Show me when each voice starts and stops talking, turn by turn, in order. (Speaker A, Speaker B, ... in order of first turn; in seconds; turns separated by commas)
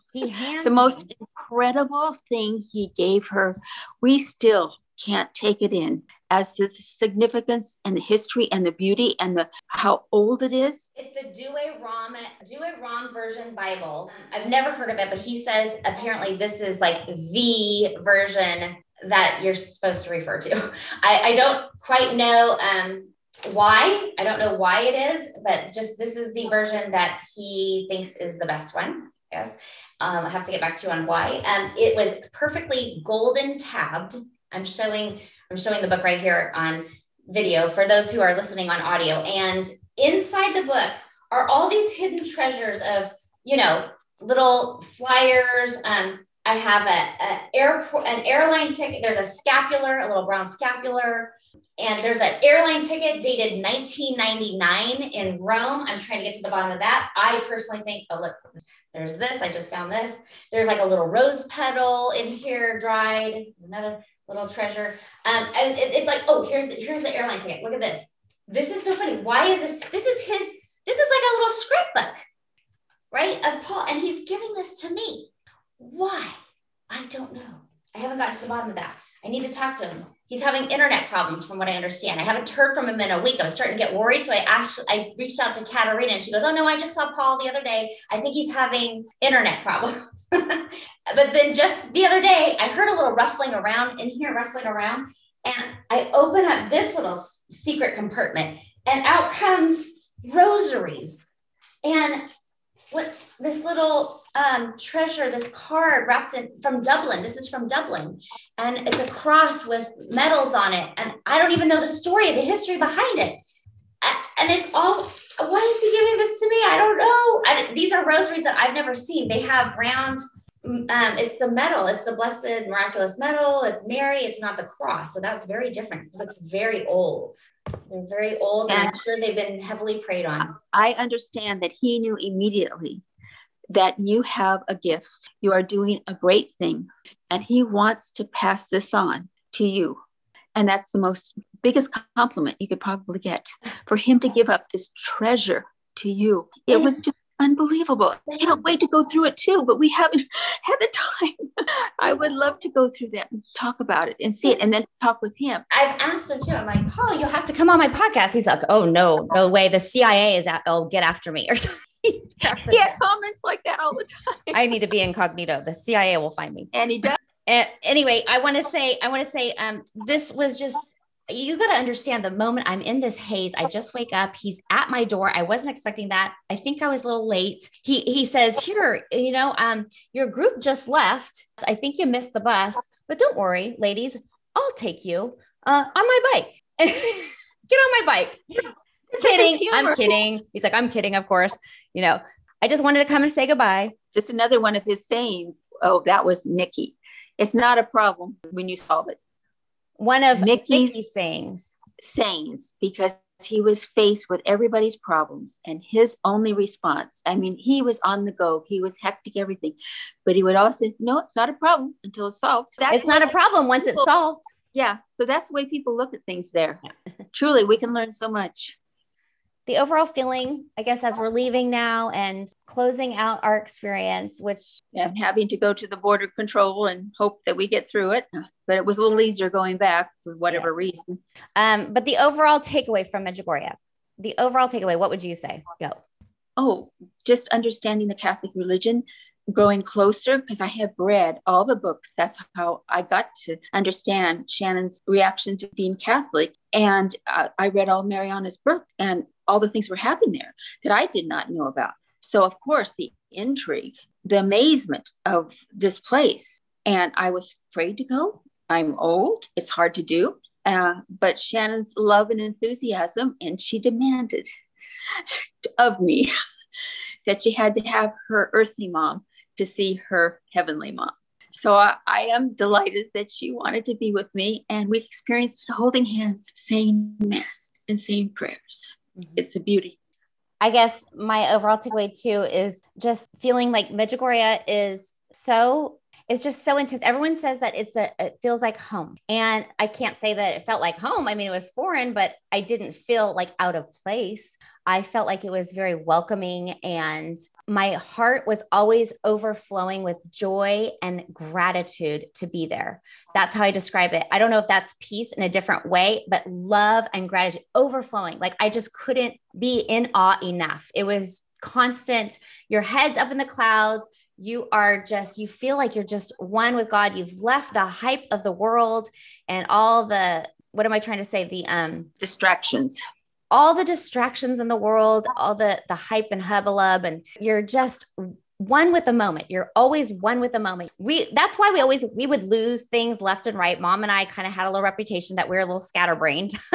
Speaker A: 0.1-1.1, Speaker B: 0.6-10.9, Speaker A: 10.9-58.4, Speaker A: 58.9-72.2, Speaker A: 73.1-76.4, Speaker A: 76.9-101.3, Speaker A: 101.8-102.3, Speaker A: 102.9-113.4, Speaker A: 114.0-130.6, Speaker B: 128.7-129.0, Speaker B: 130.4-133.0, Speaker B: 133.7-140.0, Speaker B: 140.6-155.6, Speaker A: 155.7-162.9, Speaker B: 162.4-164.6, Speaker A: 164.5-166.7, Speaker B: 166.7-167.2, Speaker A: 167.4-193.9, Speaker B: 189.1-190.2, Speaker B: 194.1-199.2, Speaker A: 200.0-201.7, Speaker B: 200.3-201.0, Speaker B: 202.0-214.1, Speaker A: 212.9-214.5, Speaker B: 214.7-216.8, Speaker B: 217.3-218.7, Speaker A: 219.7-224.8, Speaker B: 224.9-231.2, Speaker A: 231.6-236.0, Speaker B: 236.6-264.5, Speaker B: 265.1-266.3, Speaker B: 267.2-279.9, Speaker A: 280.6-322.1, Speaker B: 322.2-323.0, Speaker A: 323.5-336.5